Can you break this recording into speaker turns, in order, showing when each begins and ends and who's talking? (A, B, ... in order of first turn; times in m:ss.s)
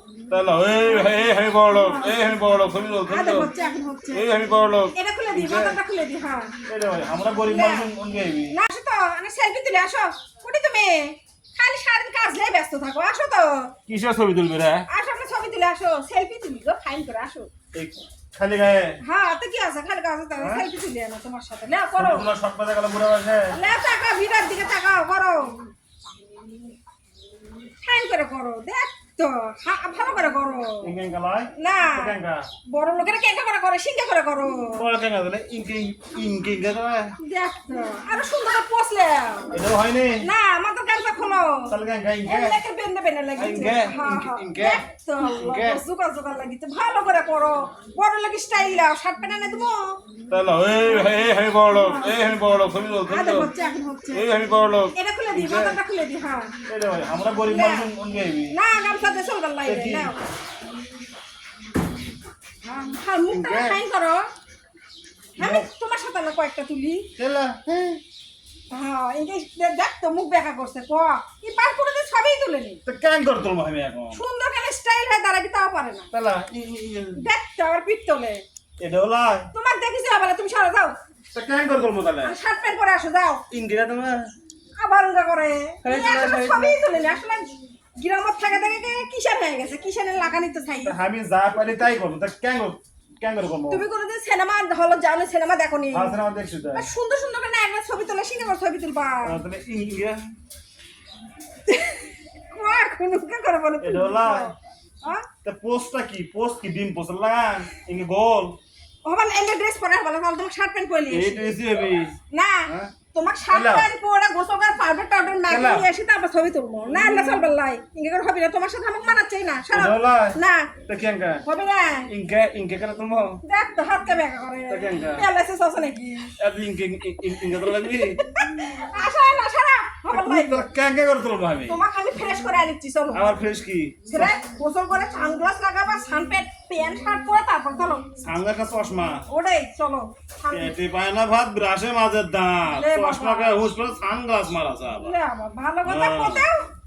0:00.3-0:03.5 A
0:01.0-0:02.2 B
0:03.1-0:04.3 B
0:04.1-0:05.8 A
0:04.9-0:06.5 B
0:06.7-0:08.5 A
0:07.4-0:07.9 B
0:08.5-0:13.7 B
0:13.9-0:14.8 A
0:14.9-0:17.5 B
0:17.7-0:19.0 A
0:19.0-0:22.3 B
0:20.4-0:20.7 A
0:22.0-0:23.5 A
0:23.5-0:25.6 B
0:27.8-0:30.9 B
0:30.8-0:32.4 A
0:31.6-0:32.1 B
0:32.7-0:34.8 B
0:34.8-0:37.2 A
0:37.2-0:39.6 B
0:39.5-0:40.3 A
0:40.2-0:41.7 B
0:41.7-0:42.6 A
0:42.2-0:49.9 B
0:43.4-0:45.8 A
0:50.3-0:53.5 A
0:51.6-0:52.2 B
0:53.1-0:54.3 B
0:54.1-0:55.8 A
0:54.9-0:56.5 B
0:56.7-0:58.5 A
0:57.4-0:57.9 B
0:58.5-1:00.2 B
0:59.6-1:00.1 A
1:02.6-1:04.2 B
1:03.3-1:03.8 A
1:05.4-1:07.1 B
1:05.4-1:05.7 A
1:07.2-1:08.0 A
1:08.7-1:12.8 B
1:12.8-1:14.2 A
1:14.1-1:16.1 B
1:16.1-1:17.2 A
1:17.2-1:18.4 B
1:18.8-1:19.5 A
1:19.5-1:20.9 B
1:21.3-1:22.3 A
1:22.2-1:23.4 B
1:23.5-1:24.3 A
1:24.8-1:31.0 B
1:25.8-1:26.8 A
1:30.8-1:33.8 A
1:33.7-1:36.1 B
1:35.9-1:36.8 A
1:36.7-1:39.4 B
1:39.2-1:40.2 A
1:41.7-1:45.2 B
1:43.8-1:44.5 A
1:45.4-1:48.6 A
1:49.0-1:51.6 B
1:51.1-1:52.1 A
1:52.3-2:00.7 B
1:52.7-1:52.9 A
1:53.5-1:53.9 A
1:55.5-1:55.9 A
1:56.9-1:57.4 A
1:59.7-2:01.4 A
2:01.4-2:02.1 B
2:02.1-2:03.4 A
2:03.4-2:06.3 B
2:04.7-2:05.3 A
2:06.4-2:08.2 A
2:07.6-2:10.6 B
2:10.1-2:11.8 A
2:11.7-2:13.3 B
2:13.1-2:14.4 A
2:14.0-2:18.1 B
2:18.2-2:19.2 A
2:19.3-2:20.8 B
2:20.5-2:25.1 A
2:22.7-2:23.6 B
2:25.0-2:26.7 B
2:25.8-2:26.5 A